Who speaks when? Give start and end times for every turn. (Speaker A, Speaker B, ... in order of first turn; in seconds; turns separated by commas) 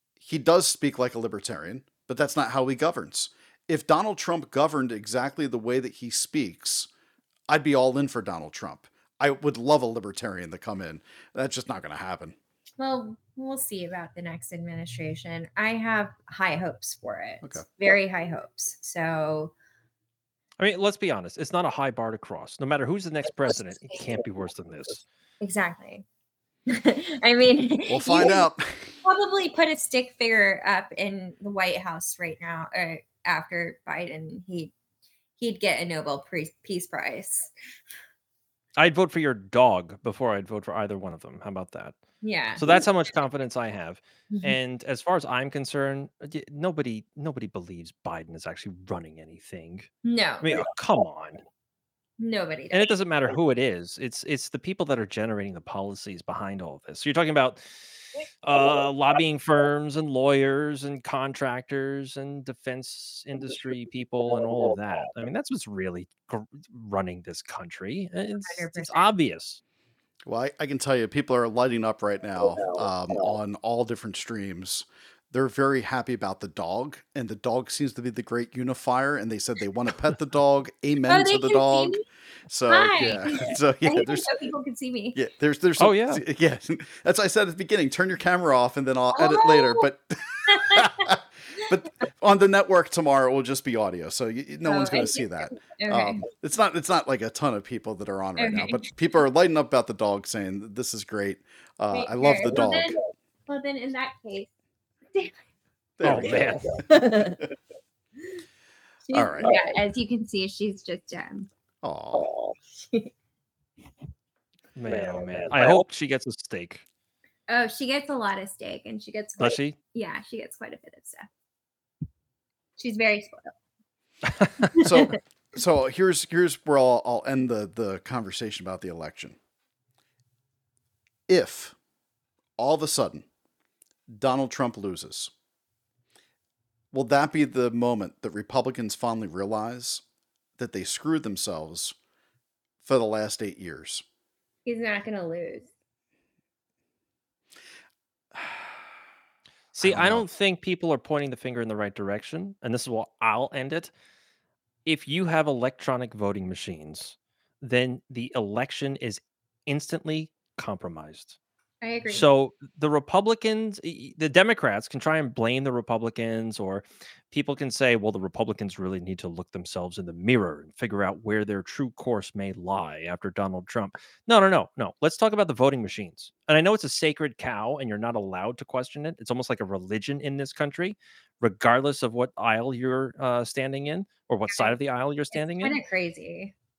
Speaker A: 0.2-6.9, Speaker A: 7.5-12.4, Speaker B: 12.8-19.5, Speaker C: 20.6-25.0, Speaker B: 25.4-26.1, Speaker B: 26.7-28.5, Speaker A: 27.9-28.9, Speaker B: 29.0-34.7, Speaker B: 35.4-37.5, Speaker C: 38.8-42.0, Speaker B: 42.2-42.6, Speaker C: 42.6-51.4, Speaker B: 44.3-44.6, Speaker B: 50.0-50.5, Speaker B: 52.2-52.9, Speaker C: 52.7-57.6, Speaker C: 58.4-69.6, Speaker B: 68.5-69.1, Speaker A: 70.3-84.3, Speaker B: 81.1-82.0, Speaker B: 82.7-85.2, Speaker A: 85.2-103.0, Speaker C: 85.8-86.2, Speaker B: 89.2-89.9, Speaker B: 90.5-91.1, Speaker B: 94.7-96.2, Speaker B: 98.4-98.9, Speaker B: 101.9-104.5, Speaker A: 106.0-106.8, Speaker C: 106.0-106.8, Speaker B: 106.8-107.4, Speaker B: 109.1-111.5, Speaker A: 109.1-109.5, Speaker A: 111.8-112.3, Speaker B: 112.8-113.1, Speaker C: 114.8-116.8, Speaker B: 117.5-121.3, Speaker C: 119.4-119.8, Speaker B: 122.8-123.5, Speaker C: 124.4-124.7, Speaker B: 124.8-125.2, Speaker A: 124.8-129.4, Speaker A: 131.3-131.8, Speaker A: 132.6-133.3, Speaker A: 134.1-135.3, Speaker A: 136.9-140.0, Speaker A: 140.6-141.9, Speaker A: 142.8-144.0, Speaker B: 144.7-145.7, Speaker A: 148.3-148.7, Speaker C: 149.7-153.9, Speaker A: 149.8-150.3, Speaker C: 154.8-161.4, Speaker B: 161.8-162.2, Speaker C: 162.1-185.8, Speaker B: 184.5-184.8, Speaker B: 185.3-186.5